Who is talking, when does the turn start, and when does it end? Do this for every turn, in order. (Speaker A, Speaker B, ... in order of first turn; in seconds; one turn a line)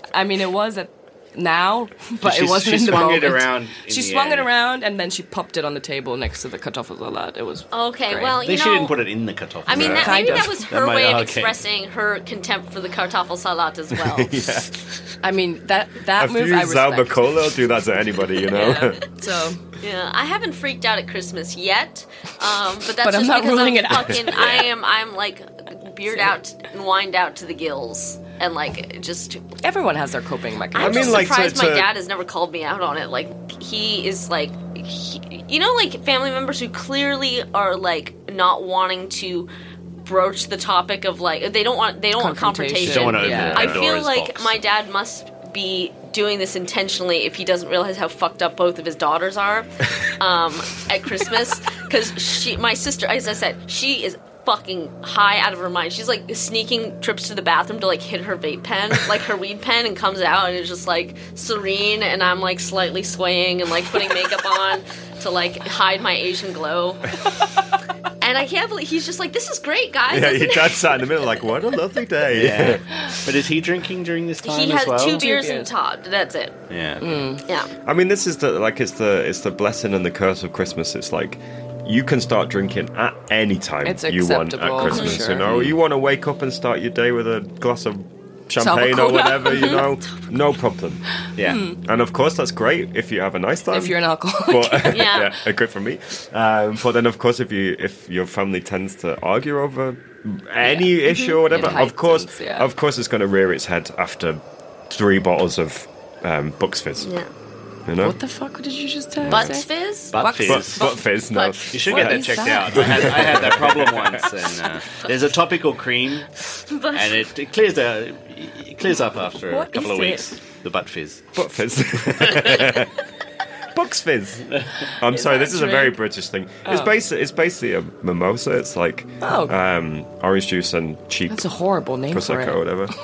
Speaker A: 0.1-8.3
Speaker B: 2.2-4.5
Speaker C: 7.7-9.0
Speaker B: 8.4-11.6
Speaker C: 9.6-14.3
Speaker D: 9.7-10.1
Speaker A: 10.0-10.6
Speaker D: 13.9-14.9
Speaker A: 15.2-17.3
Speaker D: 16.2-19.1
Speaker A: 18.5-19.6
Speaker C: 19.8-29.5
Speaker A: 23.0-24.2
Speaker B: 24.4-24.6
Speaker A: 29.6-31.5
Speaker C: 30.7-39.5
Speaker D: 30.8-31.9
Speaker C: 40.0-67.4
Speaker A: 42.1-43.8
Speaker B: 42.8-44.6
Speaker D: 43.3-43.8
Speaker C: 68.2-71.3
Speaker D: 70.1-73.0
Speaker B: 72.3-75.3
Speaker C: 74.4-76.6
Speaker A: 75.2-75.7
Speaker B: 76.7-77.2
Speaker A: 77.0-77.4
Speaker C: 77.5-77.7
Speaker D: 77.9-91.0
Speaker A: 83.8-85.5
Speaker C: 84.9-85.2
Speaker B: 85.5-85.8
Speaker A: 88.6-89.8
Speaker C: 89.5-89.9
Speaker B: 91.4-91.6
Speaker A: 91.5-91.8
Speaker D: 91.8-107.1
Speaker A: 93.7-95.1
Speaker C: 94.9-95.3
Speaker A: 100.6-100.9
Speaker C: 101.0-101.8
Speaker A: 101.5-102.7
Speaker C: 107.0-107.3
Speaker D: 107.9-108.2
Speaker A: 108.0-111.1
Speaker D: 109.2-109.5
Speaker C: 109.3-110.1
Speaker B: 110.1-110.8
Speaker D: 110.4-114.3
Speaker C: 111.3-111.7
Speaker B: 111.7-116.3
Speaker A: 111.9-113.4
Speaker C: 116.7-117.3
Speaker B: 116.9-121.3
Speaker A: 119.5-120.3
Speaker D: 121.3-122.9
Speaker B: 122.3-122.6
Speaker D: 123.7-131.5
Speaker B: 124.5-124.9
Speaker A: 125.1-126.0
Speaker A: 126.7-126.9
Speaker A: 129.2-129.6
Speaker A: 131.3-132.6
Speaker D: 132.1-132.9